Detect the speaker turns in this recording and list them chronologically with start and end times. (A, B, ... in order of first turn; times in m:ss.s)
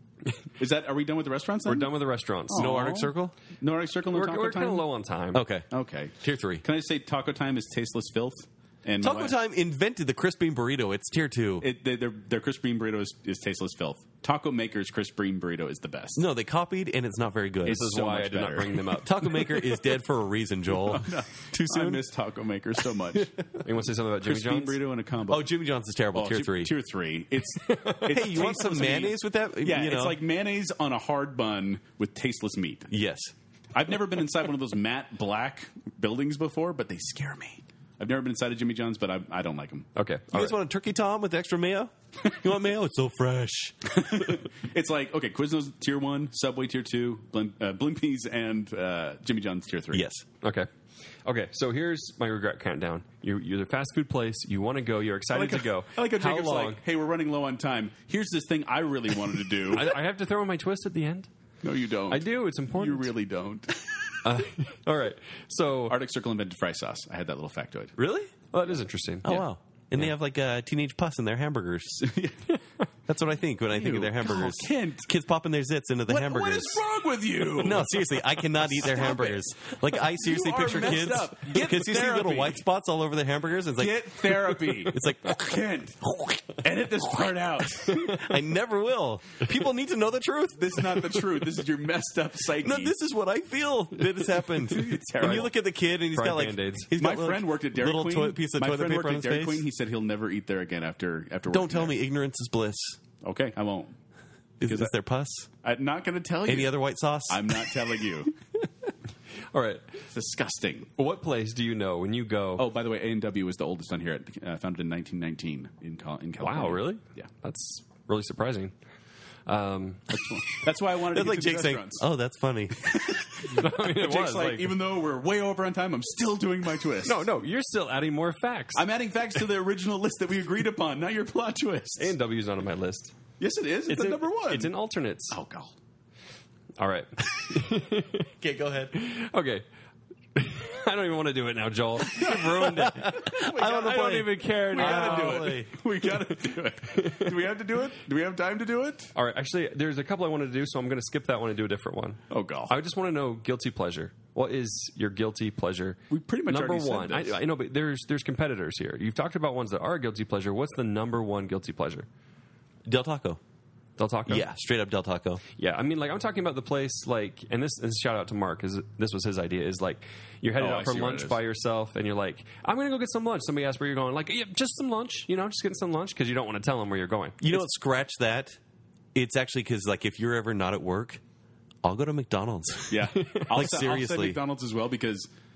0:00.6-0:01.9 A
0:01.7-0:02.7 B
0:02.5-0:04.9 A
0:02.6-0:03.4 C
0:04.1-0:05.4 B
0:05.3-0:05.7 C
0:05.7-0:09.4 A
0:06.2-0:06.6 C
0:09.0-0:11.7 C
0:11.6-0:16.2 A
0:16.2-0:17.9 C
0:17.6-0:18.9 A
0:17.7-0:19.6 B
0:19.0-0:22.0 C
0:20.7-0:23.7 A
0:23.6-0:24.8 B
0:24.2-0:25.5 A
0:25.3-0:26.7 C
0:26.1-0:32.9 A
0:27.6-0:28.1 B
0:28.1-0:30.2 C
0:32.9-0:33.3 C
0:33.7-0:39.9 A
0:40.0-0:40.6 B
0:40.3-0:43.9 C
0:43.9-0:50.1 A
0:49.9-0:50.2 C
0:50.4-0:50.7 B
0:51.2-0:56.8 B
0:55.3-1:00.0 A
0:59.7-1:01.3 B
1:01.6-1:04.2 A
1:02.1-1:03.1 B
1:04.2-1:06.0 B
1:05.9-1:08.0 A
1:08.0-1:08.3 C
1:08.4-1:09.4 B
1:09.2-1:12.2 C
1:12.0-1:12.4 A
1:13.1-1:16.8 C
1:13.7-1:15.1 A
1:16.1-1:22.6 A
1:17.6-1:26.6 C
1:23.8-1:28.2 A
1:27.8-1:31.1 C
1:30.6-1:33.0 A
1:32.6-1:39.7 C
1:34.6-1:35.5 A
1:35.2-1:36.9 B
1:37.0-1:42.0 A
1:41.5-1:43.0 C
1:43.2-1:43.9 A
1:44.6-1:45.5 C
1:44.7-1:44.9 A
1:45.6-1:48.3 A
1:46.5-1:47.7 C
1:49.5-1:49.9 B
1:50.1-1:50.9 A
1:51.0-1:52.7 B
1:52.6-1:57.3 A
1:56.4-1:58.8 B
1:59.5-2:00.2 B
2:00.1-2:02.1 A
2:01.1-2:02.8 C
2:02.8-2:07.3 A
2:03.4-2:04.8 B
2:07.0-2:08.9 B
2:08.8-2:12.1 A
2:12.0-2:13.2 B
2:13.4-2:14.7 A
2:13.9-2:15.4 B
2:15.3-2:15.7 A
2:16.8-2:18.3 B
2:18.4-2:19.0 C
2:18.9-2:19.6 B
2:20.4-2:25.6 B
2:22.1-2:25.7 C
2:23.1-2:29.1 A
2:27.0-2:27.3 B
2:29.2-2:42.1 B
2:32.3-2:32.7 A
2:36.1-2:37.4 A
2:42.9-2:43.4 C
2:44.0-2:44.5 B
2:44.3-2:45.4 C
2:45.6-2:57.6 B
2:50.6-2:51.4 A
2:57.4-2:58.6 C
2:59.2-3:01.2 C
3:01.8-3:04.4 C
3:02.9-3:05.3 A
3:03.2-3:03.5 B